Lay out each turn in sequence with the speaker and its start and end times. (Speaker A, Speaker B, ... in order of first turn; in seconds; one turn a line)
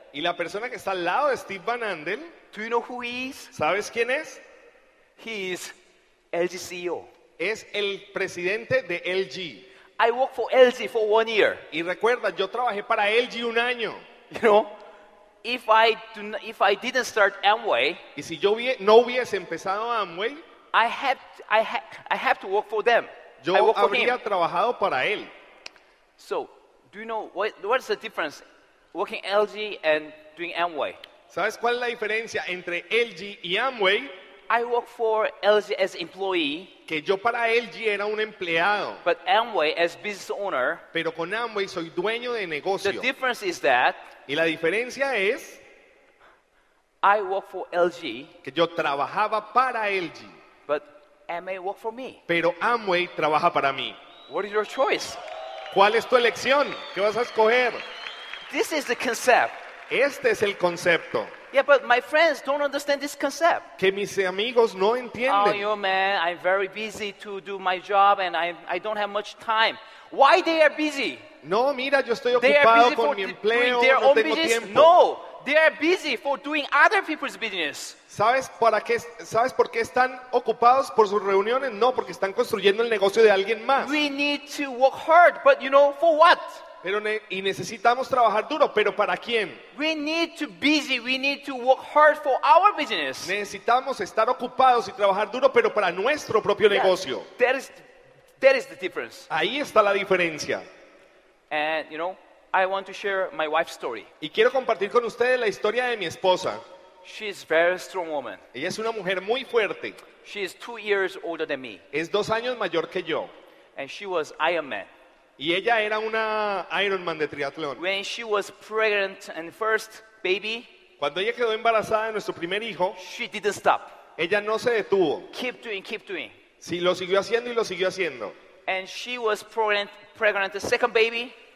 Speaker A: 0.1-2.3
Speaker B: 2.5-3.5
Speaker A: 3.5-4.4
Speaker B: 5.2-5.8
Speaker B: 6.3-7.1
Speaker A: 7.4-9.7
Speaker B: 10.0-11.7
Speaker A: 11.7-14.0
Speaker B: 14.3-14.7
Speaker B: 15.4-18.0
Speaker A: 18.2-20.4
Speaker B: 20.7-24.2
Speaker A: 23.4-25.3
Speaker B: 26.2-28.4
Speaker B: 28.9-31.0
Speaker A: 31.3-34.1
Speaker B: 34.5-36.7
Speaker A: 36.9-39.0
Speaker B: 39.0-40.8
Speaker A: 40.9-43.1
Speaker B: 42.8-44.0
Speaker A: 44.3-45.6
Speaker B: 47.0-48.3
Speaker A: 48.4-50.4
Speaker B: 50.7-52.2
Speaker A: 52.3-54.0
Speaker B: 54.3-55.2
Speaker A: 55.7-57.8
Speaker B: 58.5-59.6
Speaker A: 59.9-61.3
Speaker B: 61.5-63.7
Speaker A: 63.8-65.7
Speaker B: 65.3-71.3
Speaker A: 71.4-75.0
Speaker B: 72.3-78.0
Speaker A: 78.1-84.0
Speaker B: 83.8-86.6
Speaker A: 86.8-89.6
Speaker B: 89.7-93.3
Speaker A: 93.2-97.3
Speaker B: 96.7-97.8
Speaker B: 98.4-99.3
Speaker A: 99.3-100.7
Speaker B: 101.5-104.1
Speaker A: 104.2-106.6
Speaker B: 107.0-108.4
Speaker A: 108.5-110.0
Speaker B: 110.2-111.8
Speaker A: 111.9-113.3
Speaker B: 113.8-114.9
Speaker A: 115.4-117.8
Speaker B: 117.8-120.7
Speaker A: 121.0-123.0
Speaker B: 123.0-123.9
Speaker A: 124.2-125.3
Speaker B: 125.3-126.3
Speaker A: 126.6-128.3
Speaker B: 128.7-131.3